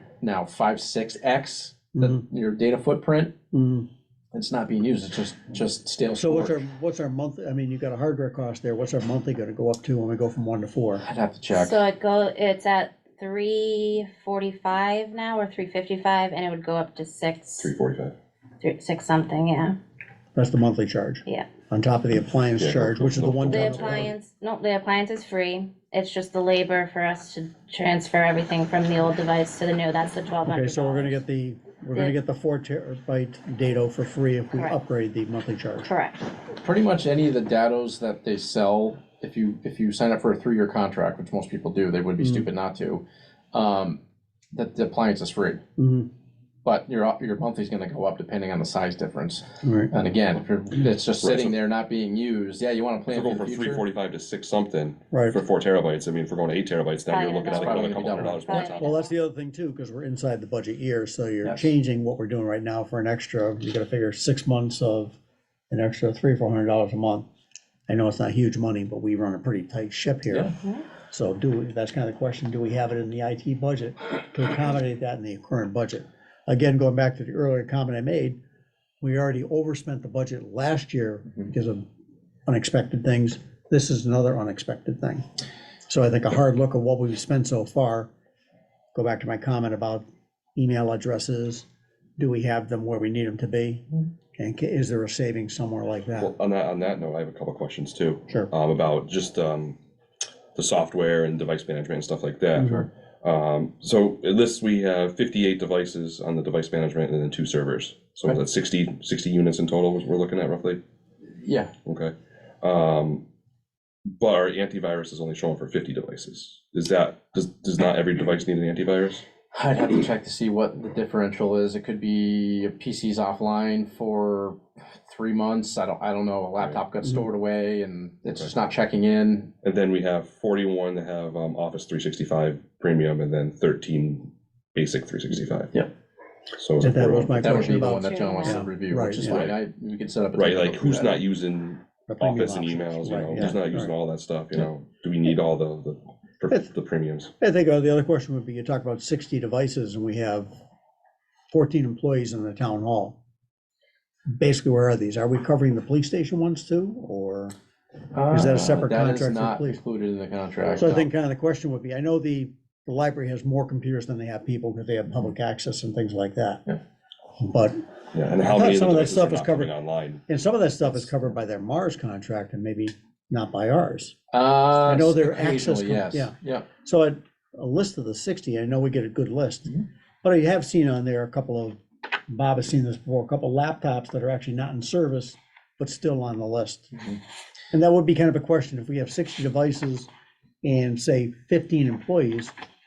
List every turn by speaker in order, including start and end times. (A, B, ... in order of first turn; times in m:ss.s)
0:00.2-0:03.4 A
0:02.0-0:02.2 B
0:03.5-0:03.9 B
0:04.3-0:06.6 A
0:06.2-0:11.0 B
0:11.0-0:11.8 A
0:11.5-0:17.7 C
0:17.6-0:18.2 D
0:18.6-0:19.8 C
0:20.4-0:24.1 B
0:22.6-0:24.1 D
0:23.5-0:31.2 C
0:30.5-0:35.9 B
0:35.8-0:36.2 C
0:36.6-0:44.0 A
0:42.2-0:42.5 B
0:44.5-0:45.6 A
0:45.8-0:46.1 B
0:46.6-0:53.8 A
0:49.6-0:49.9 B
0:51.2-0:51.6 D
0:53.1-0:58.8 D
0:55.1-0:55.4 B
0:57.1-0:59.1 C
0:57.5-0:58.7 A
0:58.8-1:05.2 B
1:05.7-1:07.3 B
1:07.9-1:10.5 B
1:11.1-1:18.4 B
1:19.0-1:21.8 B
1:22.5-1:25.2 B
1:25.9-1:28.1 B
1:28.9-1:31.6 B
1:32.2-1:33.8 B
1:34.4-1:36.3 B
1:36.2-1:39.8 D
1:40.6-1:50.8 D
1:42.6-1:42.8 B
1:51.4-1:51.7 A
1:51.8-1:53.2 D
1:54.2-1:59.2 D
1:59.5-2:09.5 A
2:09.6-2:15.7 D
2:16.5-2:17.5 D
2:16.8-2:19.4 B
2:17.3-2:21.2 A
2:17.9-2:18.6 C
2:19.3-2:19.6 D
2:20.4-2:27.3 D
2:22.1-2:23.9 B
2:27.4-2:30.5 B
2:31.5-2:33.2 B
2:34.3-2:37.6 B
2:38.1-2:41.1 A
2:38.3-2:39.8 B
2:40.7-2:46.6 B
2:47.4-2:49.7 B
2:48.1-2:50.2 D
2:50.3-2:54.2 B
2:54.3-2:56.7 A
2:54.8-3:01.8 B
3:02.3-3:06.9 B
3:07.7-3:10.1 B
3:10.6-3:12.5 B